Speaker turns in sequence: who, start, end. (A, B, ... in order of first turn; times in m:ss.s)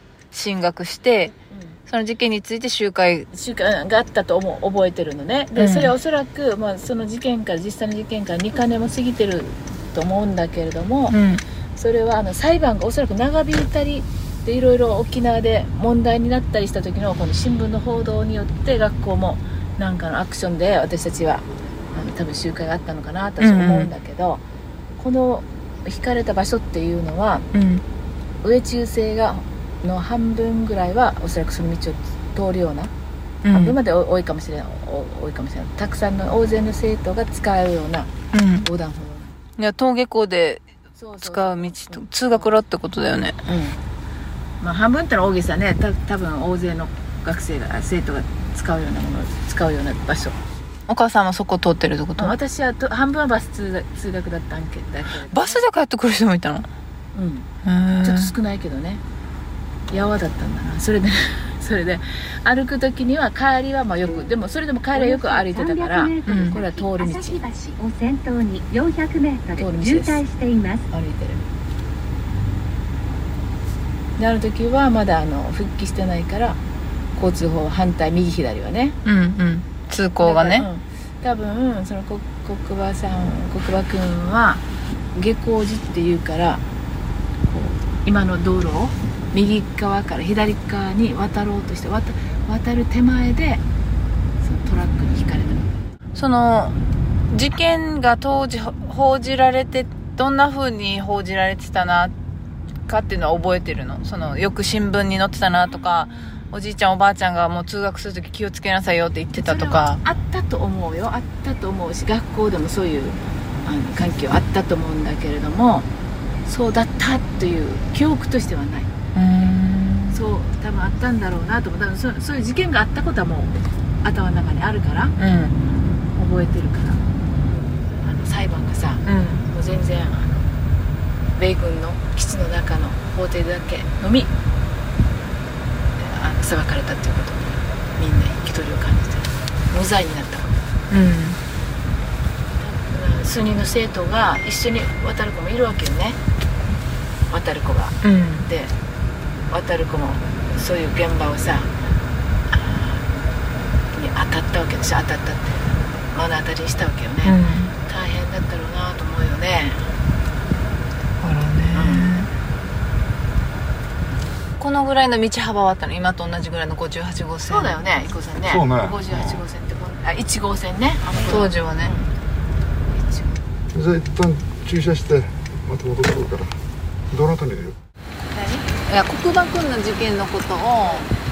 0:00.3-0:01.3 A
0:01.5-0:01.8 B
0:01.9-0:03.3 A
0:03.3-0:11.2 B
0:05.6-0:05.9 A
0:11.1-0:11.4 A
0:11.8-0:24.4 B
0:23.4-0:23.9 A
0:25.0-0:27.5 B
0:27.5-0:27.8 A
0:28.4-0:32.9 B
0:33.4-0:33.8 A
0:33.5-0:38.1 B
0:38.3-0:38.6 A
0:38.6-0:39.4 B
0:39.6-0:40.7 A
0:41.0-0:42.5 B
0:41.2-0:43.4 A
0:43.4-0:43.8 B
0:44.6-0:50.4 B
0:50.9-0:52.4 A
0:52.2-0:55.6 B
0:55.3-0:56.7 A
0:57.1-0:57.5 B
0:57.6-0:58.3 A
0:58.0-0:59.0 B
0:59.9-1:07.7 B
1:04.9-1:10.9 C
1:06.2-1:06.6 A
1:09.6-1:10.2 B
1:10.9-1:11.4 B
1:14.2-1:16.6 B
1:17.1-1:19.0 B
1:19.0-1:20.7 A
1:20.2-1:24.6 B
1:25.1-1:26.6 B
1:27.5-1:33.6 B
1:34.4-1:35.8 B
1:36.2-1:36.8 A
1:37.3-1:42.1 A
1:42.9-1:50.0 A
1:49.3-1:55.9 B
1:56.4-1:58.9 B
1:59.1-2:00.2 A
2:00.1-2:05.1 B
2:05.2-2:05.6 A
2:06.1-2:07.0 B
2:08.0-2:10.5 B
2:09.0-2:09.4 A
2:11.4-2:14.3 B
2:16.0-2:20.5 B
2:20.9-2:21.4 A
2:22.6-2:26.2 B
2:27.3-2:28.7 B
2:28.0-2:28.4 A
2:29.5-2:31.7 B
2:32.5-2:33.0 B
2:33.9-2:39.8 B
2:37.2-2:37.7 A
2:41.2-2:42.3 A
2:41.7-2:42.1 B
2:44.6-2:47.8 A
2:47.4-2:52.1 B
2:48.4-2:49.4 D
2:51.2-2:51.9 A
2:52.9-2:53.3 B
2:53.7-2:56.6 D
2:57.1-2:57.8 D
2:58.3-3:01.1 A
3:00.8-3:01.1 B